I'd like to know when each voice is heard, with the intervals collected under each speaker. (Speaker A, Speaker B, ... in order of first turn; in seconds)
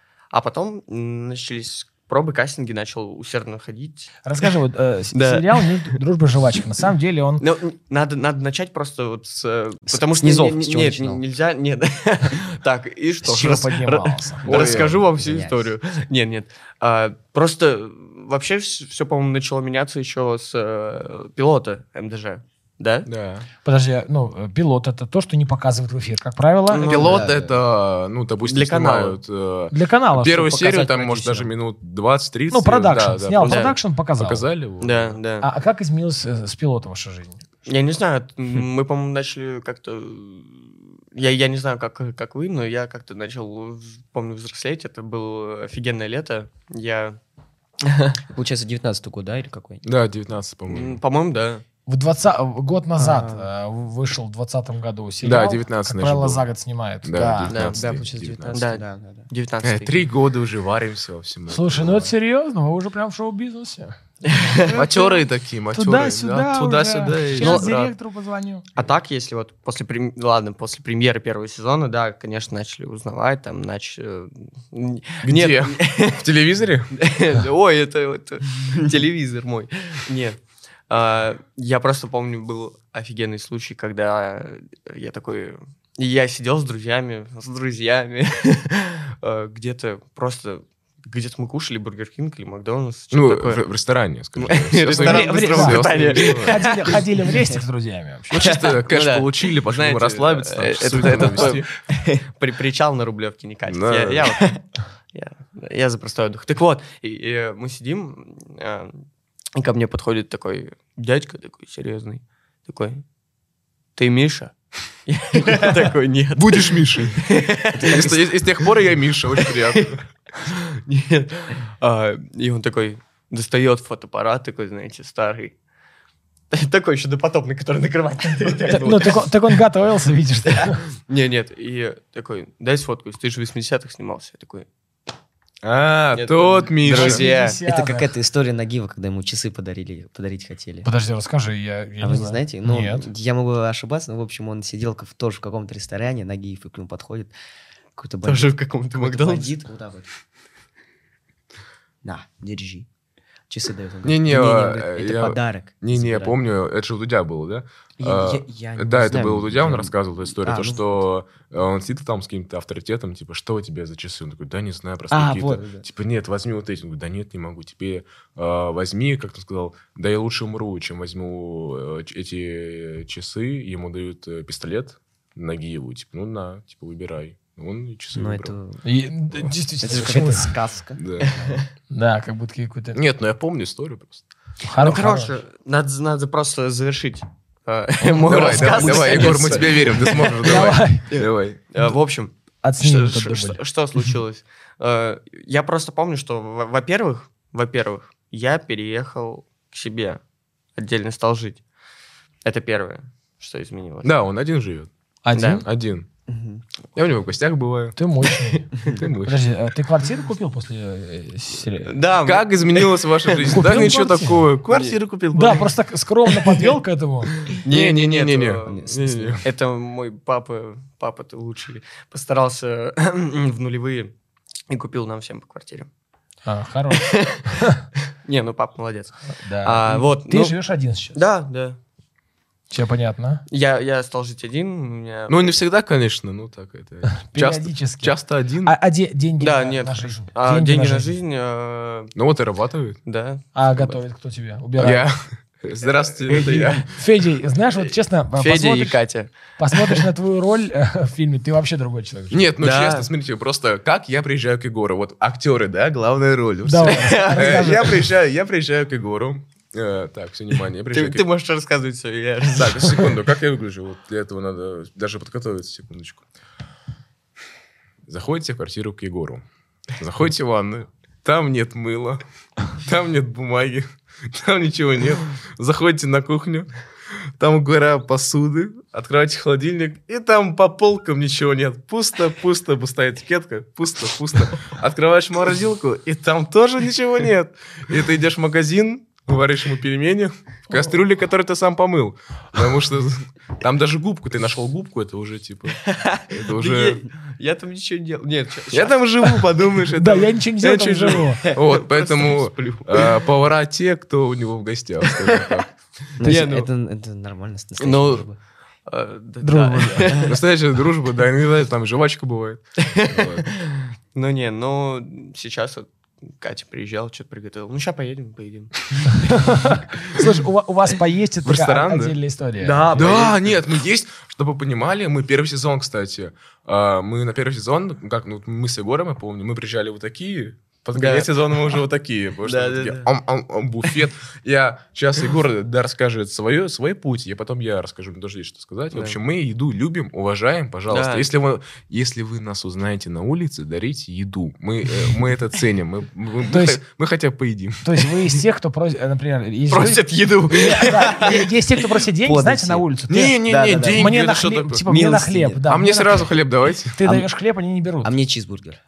Speaker A: 0.3-4.5, 5.1-6.0, 7.4-23.1, 26.7-27.2, 28.4-29.2, 33.4-33.8, 34.8-35.5, 37.7-47.2, 47.8-48.2, 50.7-51.6, 57.5-60.0, 64.2-64.7, 67.3-67.9, 68.8-76.3, 76.9-93.6, 94.4-97.4, 98.3-113.0, 114.0-114.5, 115.1-118.7, 119.4-125.5, 126.5-129.3, 130.5-134.7, 136.2-137.6, 148.2-149.6, 184.8-200.2, 200.8-201.6, 202.4-204.1, 205.3-205.7, 208.5-208.9, 211.9-213.9, 214.7-215.0, 217.4-224.1, 224.7-225.9, 226.9-227.7, 228.2-230.6, 231.1-231.8, 233.5-235.6, 239.4-242.1, 243.1-244.0, 245.8-246.9, 247.8-250.1, 252.6-253.1, 256.9-258.0, 260.9-263.2, 295.9-299.7, 301.2-303.3, 305.1-305.5, 306.2-306.7, 307.8-308.3, 308.9-310.4, 312.8-320.2, 322.6-323.7, 330.9-331.7, 332.4-333.1, 338.9-339.2, 340.9-341.3, 349.7-351.8
Speaker B: 4.2-7.4, 13.2-14.4, 23.6-27.0, 29.7-30.5, 32.5-34.5, 35.4-37.4, 51.9-57.6, 61.5-68.7, 95.0-98.4, 128.7-130.8, 136.8-138.1, 140.8-143.1, 178.8-180.6, 181.9-183.0, 184.6-185.4, 188.0-189.3, 190.4-191.1, 192.6-193.6, 205.2-205.7, 208.0-212.0, 213.5-214.4, 215.3-217.4, 226.5-227.8, 229.4-231.2, 232.7-233.4, 237.1-241.2, 243.6-245.1, 246.9-249.0, 249.6-252.4, 256.6-257.9, 299.9-301.5, 309.4-310.3, 319.2-322.9, 346.5-346.8, 347.8-353.4, 353.9-356.3, 356.9-358.1
Speaker C: 9.9-11.2, 14.5-15.7, 26.9-27.6, 30.4-31.5, 48.3-49.8, 53.0-53.5, 57.6-59.3, 137.6-140.9, 142.0-147.3, 148.0-150.1, 152.0-152.9, 153.5-156.4, 158.0-161.1, 165.1-165.8, 178.1-178.8, 179.8-181.6, 188.6-189.7, 206.3-206.6, 218.7-219.4, 306.2-308.4, 352.2-355.6, 357.0-357.3, 358.0-358.8
Speaker D: 14.4-15.0, 23.1-23.5, 26.9-35.2, 49.8-51.0, 55.2-56.4, 57.0-58.6, 59.6-62.1, 64.7-67.8, 75.2-77.0, 93.1-96.6, 98.3-101.7, 103.7-104.3, 116.4-120.0, 135.6-137.2, 154.0-178.6, 181.0-181.6, 182.9-184.2, 188.3-191.6, 204.0-204.9, 205.6-206.1, 206.9-208.0, 208.8-209.5, 212.2-215.7, 217.7-219.4, 235.3-238.7, 242.2-243.0, 244.8-246.9, 252.3-261.2, 262.5-266.2, 268.1-276.7, 277.4-297.0, 298.7-305.7, 310.2-313.5, 321.4-322.2, 322.9-348.1, 353.1-354.9, 355.7-357.1